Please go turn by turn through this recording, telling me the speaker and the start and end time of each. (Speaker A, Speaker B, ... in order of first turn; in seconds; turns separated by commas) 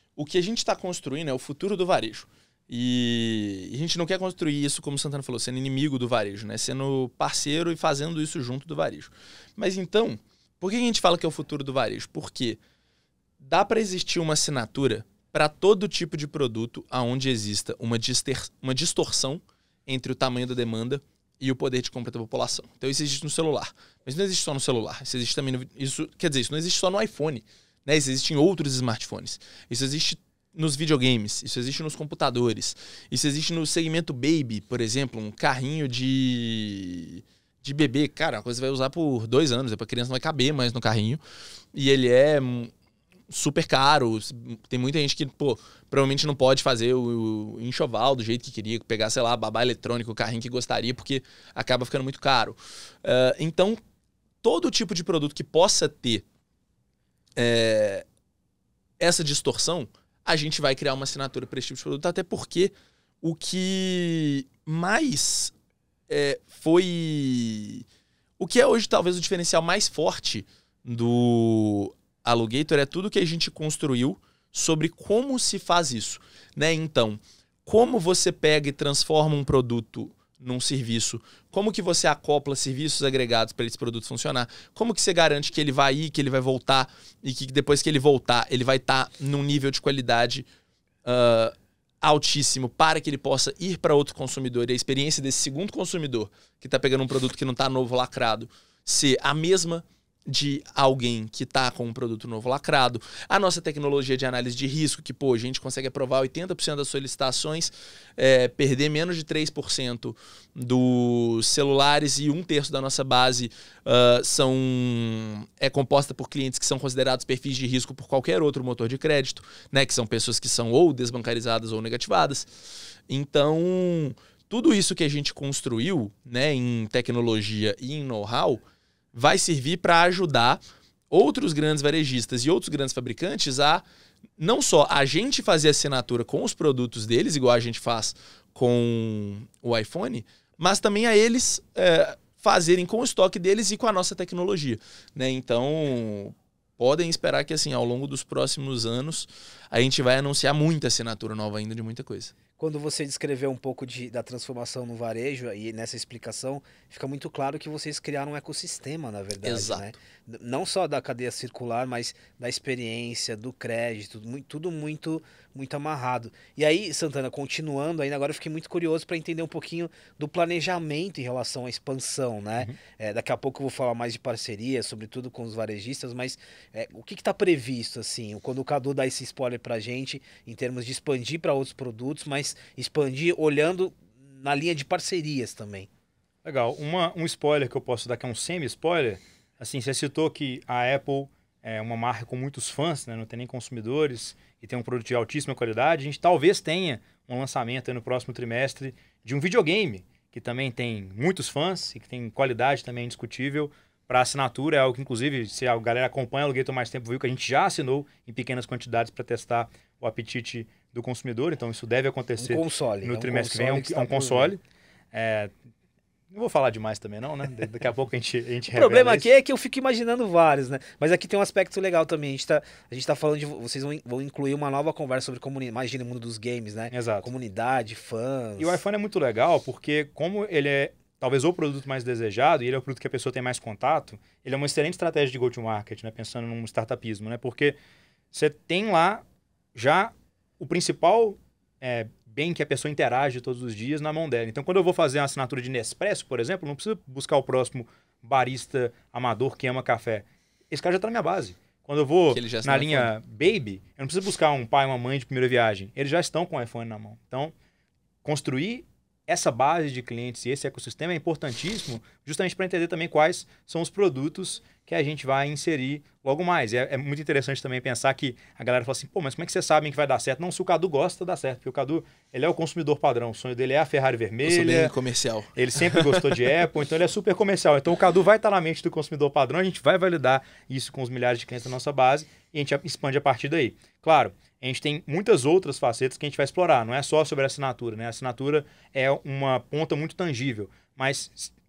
Speaker A: 0.1-12.6, Speaker A: 13.4-41.2, Speaker A: 41.7-42.7, Speaker A: 43.3-53.8, Speaker A: 54.4-56.2, Speaker A: 57.4-58.0, Speaker A: 59.0-65.5, Speaker A: 66.1-67.8, Speaker A: 68.4-90.5, Speaker A: 91.0-122.5, Speaker A: 123.1-128.6, Speaker A: 129.1-133.8, Speaker A: 134.4-152.3, Speaker B: 152.6-185.9, Speaker A: 159.4-159.9, Speaker C: 186.4-214.6, Speaker B: 212.4-214.5, Speaker C: 215.1-215.5, Speaker C: 216.3-219.3, Speaker B: 218.7-228.8, Speaker C: 226.9-227.3, Speaker C: 228.6-237.8, Speaker C: 238.3-257.5, Speaker A: 252.3-253.1, Speaker C: 258.2-274.9, Speaker A: 274.4-276.4, Speaker C: 275.6-291.5